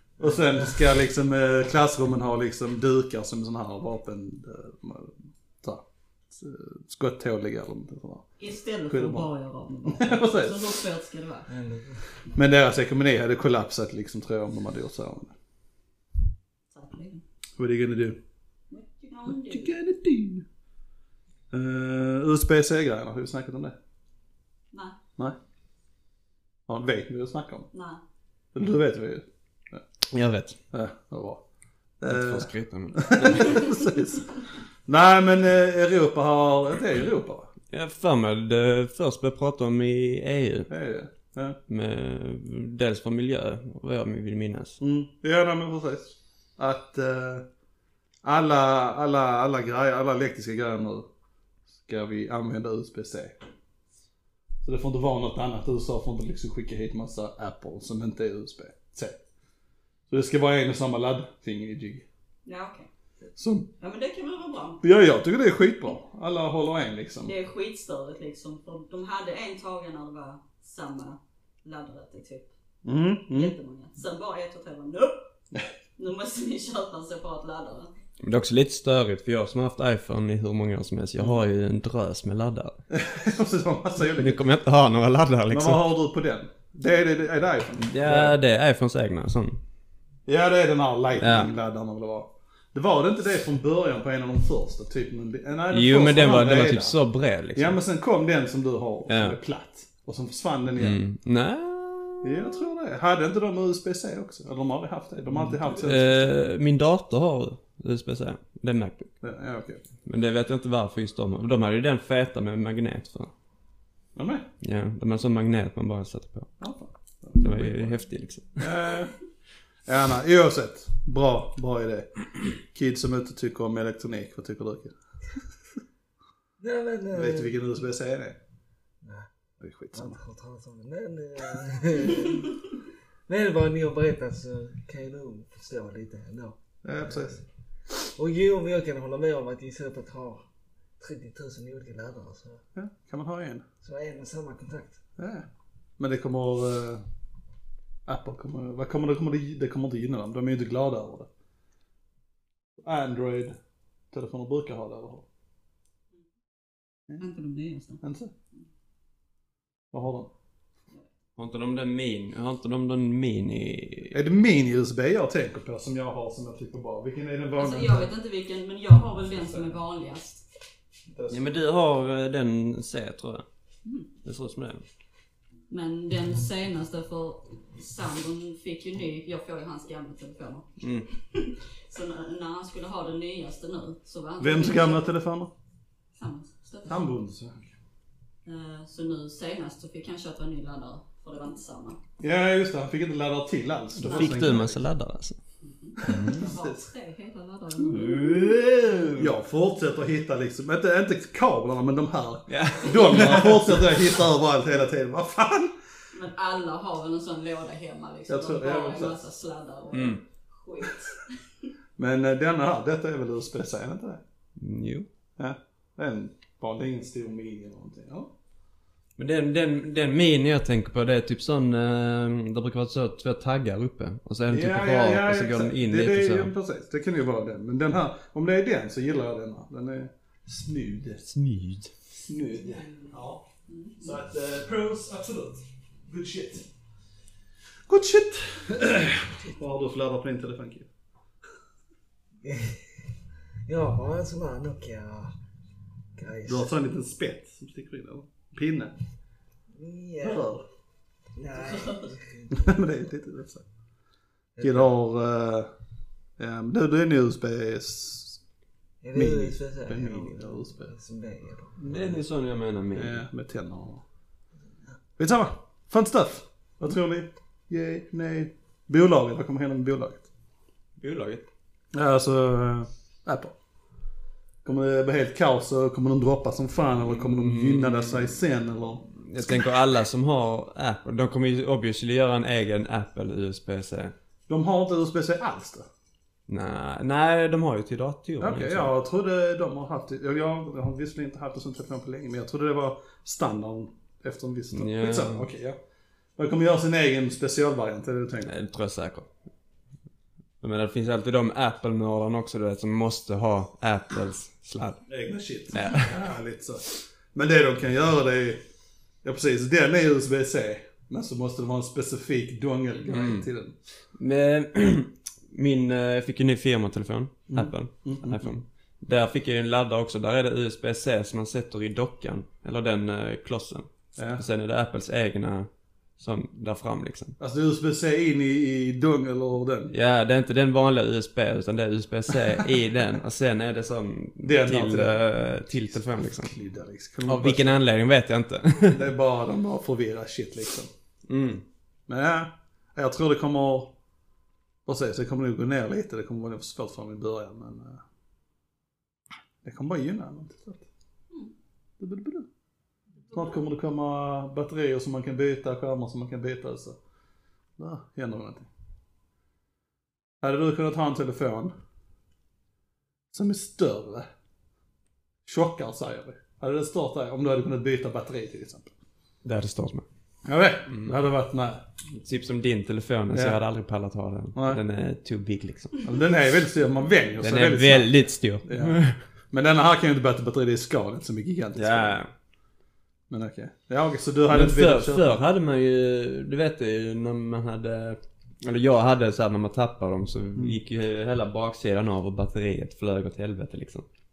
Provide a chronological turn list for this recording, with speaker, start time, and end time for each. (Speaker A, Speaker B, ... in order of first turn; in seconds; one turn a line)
Speaker A: 0.2-8.3
Speaker B: 8.4-11.5
Speaker A: 8.9-9.3
Speaker A: 9.9-10.7
Speaker C: 11.5-12.0
Speaker A: 12.3-15.3
Speaker B: 16.7-17.2
Speaker A: 17.6-18.2
Speaker B: 18.7-19.7
Speaker A: 19.3-20.4
Speaker A: 21.5-23.7
Speaker B: 24.7-25.0
Speaker A: 26.7-27.7
Speaker B: 27.7-28.0
Speaker A: 28.5-29.8
Speaker D: 30.1-30.6
Speaker A: 30.7-31.4
Speaker A: 32.0-34.3
Speaker D: 32.1-33.9
Speaker A: 34.9-37.5
Speaker D: 37.7-40.7
Speaker A: 40.7-41.6
Speaker D: 41.7-44.8
Speaker A: 44.8-47.5
Speaker A: 48.2-51.1
Speaker A: 51.8-53.4
Speaker A: 54.6-59.2
Speaker A: 60.1-62.0
Speaker B: 62.4-62.9
Speaker A: 63.4-63.7
Speaker B: 63.8-64.8
Speaker A: 64.8-67.3
Speaker B: 67.2-72.5
Speaker A: 72.8-73.5
Speaker B: 73.3-75.2
Speaker B: 76.0-77.9
Speaker D: 78.2-82.8
Speaker A: 82.9-84.4
Speaker D: 84.0-85.8
Speaker A: 85.5-88.3
Speaker D: 87.8-89.6
Speaker A: 90.3-97.0
Speaker D: 91.2-91.5
Speaker D: 95.7-97.7
Speaker A: 97.5-101.0
Speaker D: 99.1-99.3
Speaker D: 100.8-102.6
Speaker A: 102.2-106.3
Speaker D: 105.3-109.1
Speaker A: 109.2-109.8
Speaker D: 110.0-113.3
Speaker A: 114.1-114.5
Speaker D: 114.6-116.5
Speaker A: 116.6-118.0
Speaker D: 117.4-118.7
Speaker A: 118.6-119.2
Speaker A: 119.8-125.0
Speaker C: 126.6-127.5
Speaker A: 127.1-128.4
Speaker C: 129.0-129.3
Speaker A: 129.6-130.2
Speaker C: 129.9-132.7
Speaker C: 133.3-137.4
Speaker A: 136.8-137.4
Speaker C: 137.9-140.4
Speaker C: 141.0-142.6
Speaker A: 142.7-143.6
Speaker C: 143.8-145.0
Speaker A: 145.2-145.4
Speaker A: 146.0-147.0
Speaker A: 148.1-151.3
Speaker A: 152.8-153.6
Speaker A: 154.1-155.2
Speaker B: 157.2-158.0
Speaker A: 158.0-158.3
Speaker A: 159.9-160.3
Speaker D: 161.4-164.2
Speaker A: 164.1-168.1
Speaker B: 167.6-170.4
Speaker A: 169.4-169.7
Speaker A: 171.1-171.4
Speaker D: 171.3-173.4
Speaker D: 174.2-174.8
Speaker B: 175.7-185.1
Speaker D: 180.8-181.1
Speaker A: 184.4-185.5
Speaker B: 186.1-187.1
Speaker A: 186.9-187.7
Speaker B: 188.4-192.0
Speaker A: 192.2-194.8
Speaker D: 194.0-195.4
Speaker B: 194.0-194.5
Speaker B: 195.6-198.5
Speaker A: 196.0-196.8
Speaker D: 196.0-196.5
Speaker D: 197.8-199.3
Speaker A: 199.2-205.7
Speaker D: 202.5-203.8
Speaker B: 206.1-211.3
Speaker A: 208.3-209.2
Speaker D: 209.9-210.2
Speaker A: 212.0-214.2
Speaker D: 214.6-215.1
Speaker A: 215.4-218.3
Speaker D: 219.2-226.5
Speaker A: 224.5-231.2
Speaker D: 231.2-231.9
Speaker A: 232.2-233.4
Speaker B: 232.6-234.1
Speaker A: 234.0-236.7
Speaker A: 237.9-240.9
Speaker C: 242.4-243.0
Speaker C: 243.7-245.3
Speaker C: 246.1-246.7
Speaker A: 246.4-248.9
Speaker C: 249.7-250.6
Speaker A: 250.2-250.6
Speaker C: 251.3-252.7
Speaker B: 251.6-252.2
Speaker A: 252.5-253.6
Speaker C: 254.6-254.9
Speaker A: 254.6-255.7
Speaker A: 256.4-258.4
Speaker C: 259.0-262.1
Speaker A: 259.1-260.9
Speaker D: 261.8-263.2
Speaker A: 262.9-264.0
Speaker A: 265.2-270.3
Speaker D: 271.0-271.5
Speaker A: 271.9-273.5
Speaker A: 274.6-279.1
Speaker D: 277.1-278.4
Speaker D: 279.1-284.1
Speaker A: 284.5-285.9
Speaker D: 286.5-288.9
Speaker A: 288.4-295.8
Speaker D: 294.7-295.5
Speaker A: 296.4-298.5
Speaker D: 298.4-299.3
Speaker D: 300.6-305.0
Speaker A: 305.1-308.6
Speaker D: 305.7-306.1
Speaker A: 309.2-313.7
Speaker D: 313.1-313.5
Speaker D: 314.1-327.4
Speaker A: 317.5-318.5
Speaker A: 324.2-324.4
Speaker A: 327.4-329.9
Speaker D: 329.9-336.5
Speaker A: 334.4-335.2
Speaker A: 335.8-337.8
Speaker D: 337.2-339.1
Speaker A: 338.9-340.9
Speaker D: 341.3-341.6
Speaker A: 342.1-343.9
Speaker A: 344.9-348.0
Speaker A: 349.6-350.8
Speaker A: 352.0-352.5
Speaker B: 353.3-353.6
Speaker A: 353.3-357.0
Speaker A: 357.8-358.7
Speaker A: 360.4-361.7
Speaker A: 363.3-364.3
Speaker A: 365.4-368.9
Speaker D: 369.4-370.0
Speaker A: 370.4-371.8
Speaker D: 370.9-371.1
Speaker D: 372.1-376.1
Speaker A: 373.3-373.6
Speaker A: 374.6-374.8
Speaker A: 376.0-378.1
Speaker D: 377.4-379.2
Speaker A: 378.7-379.0
Speaker A: 379.5-382.2
Speaker D: 381.8-382.3
Speaker A: 383.3-385.4
Speaker D: 384.5-394.1